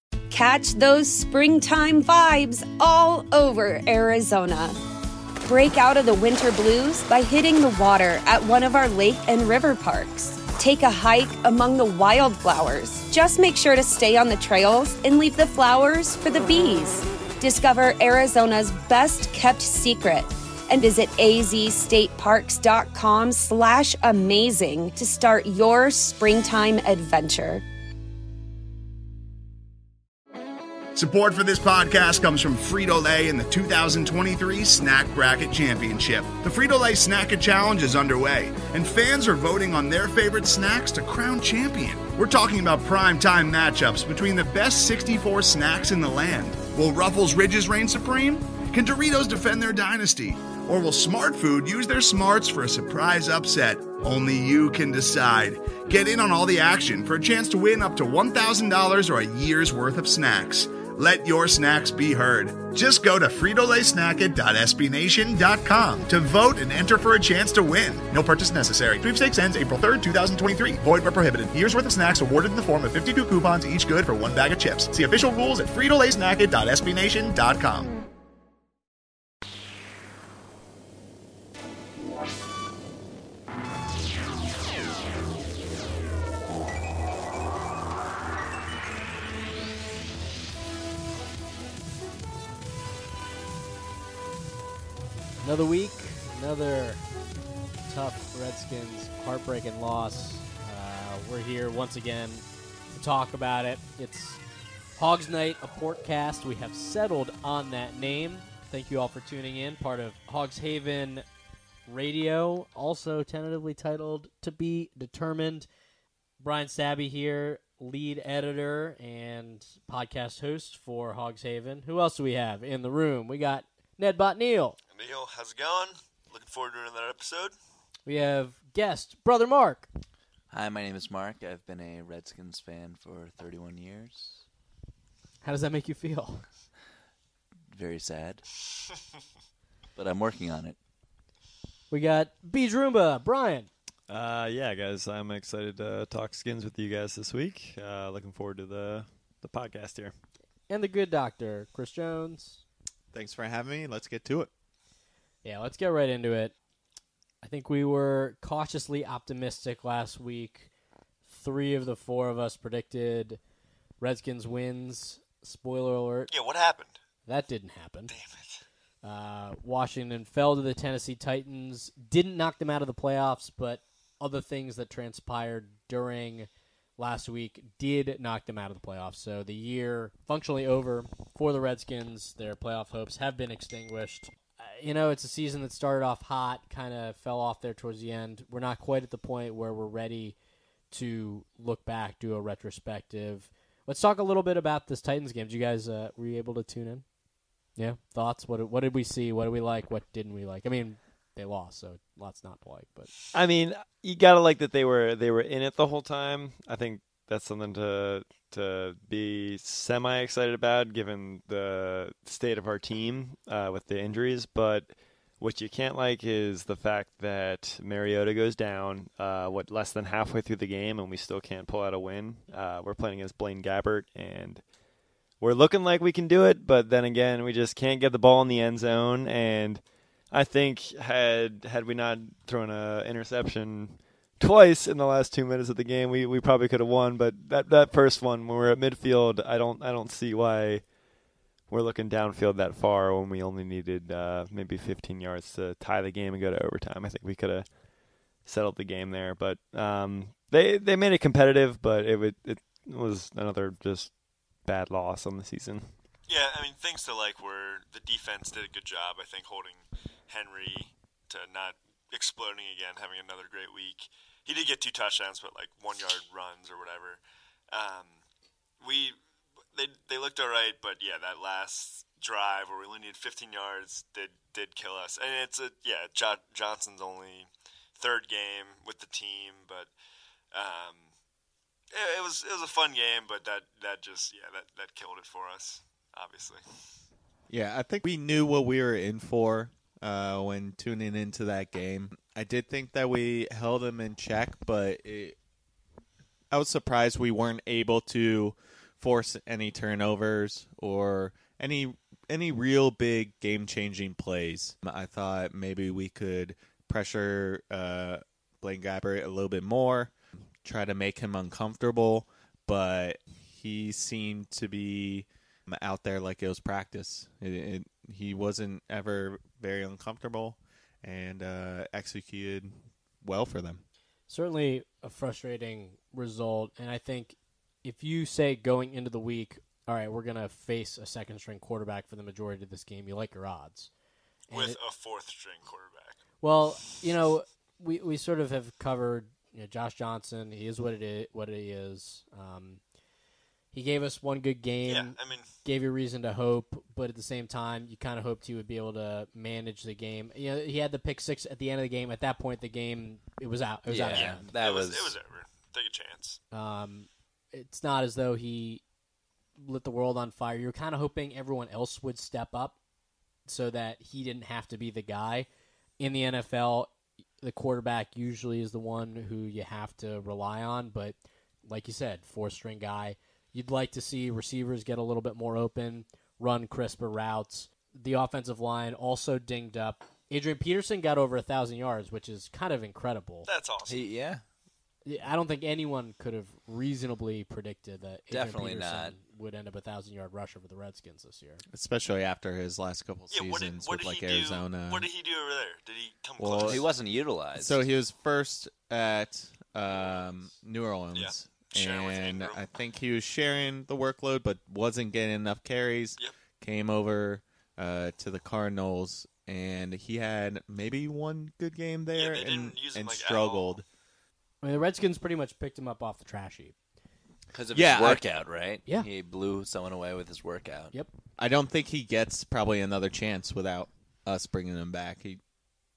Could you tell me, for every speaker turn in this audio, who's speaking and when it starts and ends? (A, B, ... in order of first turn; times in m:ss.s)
0:00.3-0:04.8 A
0:05.4-0:27.6 A
0:31.0-1:17.9 B
1:35.4-1:37.0 C
1:37.9-1:44.4 C
1:45.0-1:51.2 C
1:51.9-1:55.7 C
1:56.4-2:04.8 C
2:04.9-2:07.5 D
2:08.1-2:09.9 C
2:10.5-2:14.4 E
2:15.4-2:16.4 C
2:17.7-2:18.4 E
2:20.0-2:20.8 E
2:21.9-2:23.7 C
2:24.1-2:30.2 F
2:30.7-2:32.6 C
2:33.1-2:34.5 G
2:35.4-2:36.5 C
2:37.4-2:40.7 C
2:41.2-2:43.4 C
2:44.0-2:46.3 C
2:46.3-2:47.0 D
2:47.3-2:48.1 C
2:48.1-2:48.6 D
2:49.0-3:10.4 C
3:10.9-3:17.0 C
3:17.8-3:23.1 C
3:23.3-3:44.6 F
3:45.4-4:01.0 F
4:01.7-4:07.8 F
4:08.4-4:16.0 F
4:16.3-4:28.2 D
4:28.8-4:29.2 D
4:29.7-4:39.9 D
4:40.5-4:41.1 D
4:41.9-4:46.6 D
4:47.5-4:55.4 G
4:56.5-5:23.8 G
5:24.3-5:33.9 C
5:34.5-5:34.8 C
5:34.5-5:36.2 D
5:36.4-5:42.8 C
5:43.7-5:54.5 C
5:44.9-5:45.5 D
5:53.9-5:55.2 E
5:54.2-5:56.4 D
5:56.5-5:58.8 C
5:59.6-6:02.8 C
6:03.5-6:05.5 C
6:06.0-6:23.5 C
6:23.5-6:24.1 D
6:23.9-6:24.4 E
6:25.1-6:31.6 C
6:28.3-6:29.2 E
6:31.7-6:35.1 G
6:33.3-6:36.9 D
6:36.4-6:36.8 G
6:36.6-6:37.9 E
6:37.6-6:53.8 G
6:39.8-6:40.4 D
6:41.1-6:42.6 D
6:52.1-6:53.8 D
6:54.6-6:56.8 C
6:57.5-7:00.9 E
6:57.7-6:58.2 G
7:01.4-7:05.4 G